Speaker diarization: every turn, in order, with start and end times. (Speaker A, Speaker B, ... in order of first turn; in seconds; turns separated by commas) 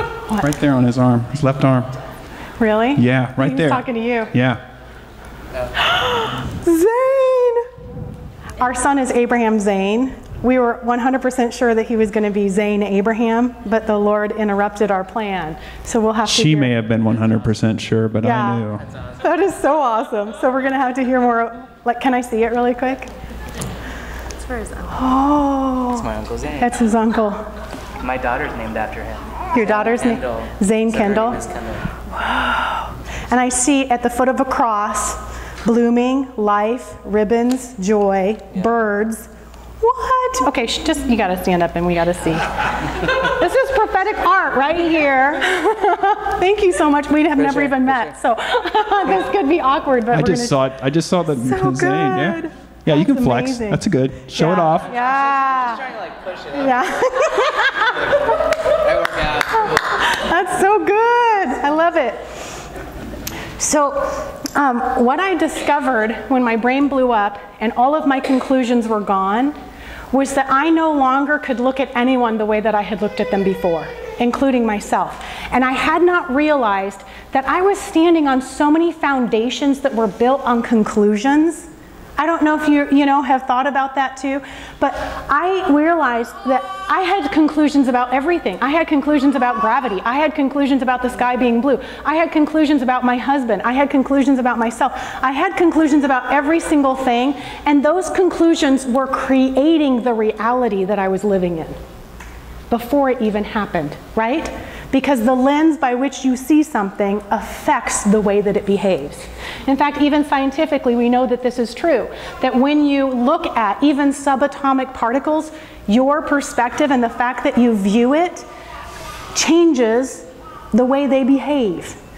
Speaker A: 0.4-2.0, Speaker B: 2.6-4.3, Speaker A: 3.0-4.6, Speaker B: 5.8-7.7, Speaker B: 8.6-16.7, Speaker A: 16.2-18.9, Speaker B: 18.2-23.1, Speaker B: 24.8-26.0, Speaker C: 25.9-26.7, Speaker B: 26.6-27.4, Speaker C: 28.0-31.8, Speaker B: 29.5-31.4, Speaker B: 32.1-39.3, Speaker B: 39.8-50.6, Speaker C: 47.4-48.1, Speaker A: 50.1-54.9, Speaker B: 51.4-53.8, Speaker B: 54.4-62.2, Speaker C: 55.0-56.5, Speaker C: 59.0-59.6, Speaker B: 63.6-69.5, Speaker B: 70.1-101.8, Speaker B: 102.7-118.5, Speaker B: 119.3-122.0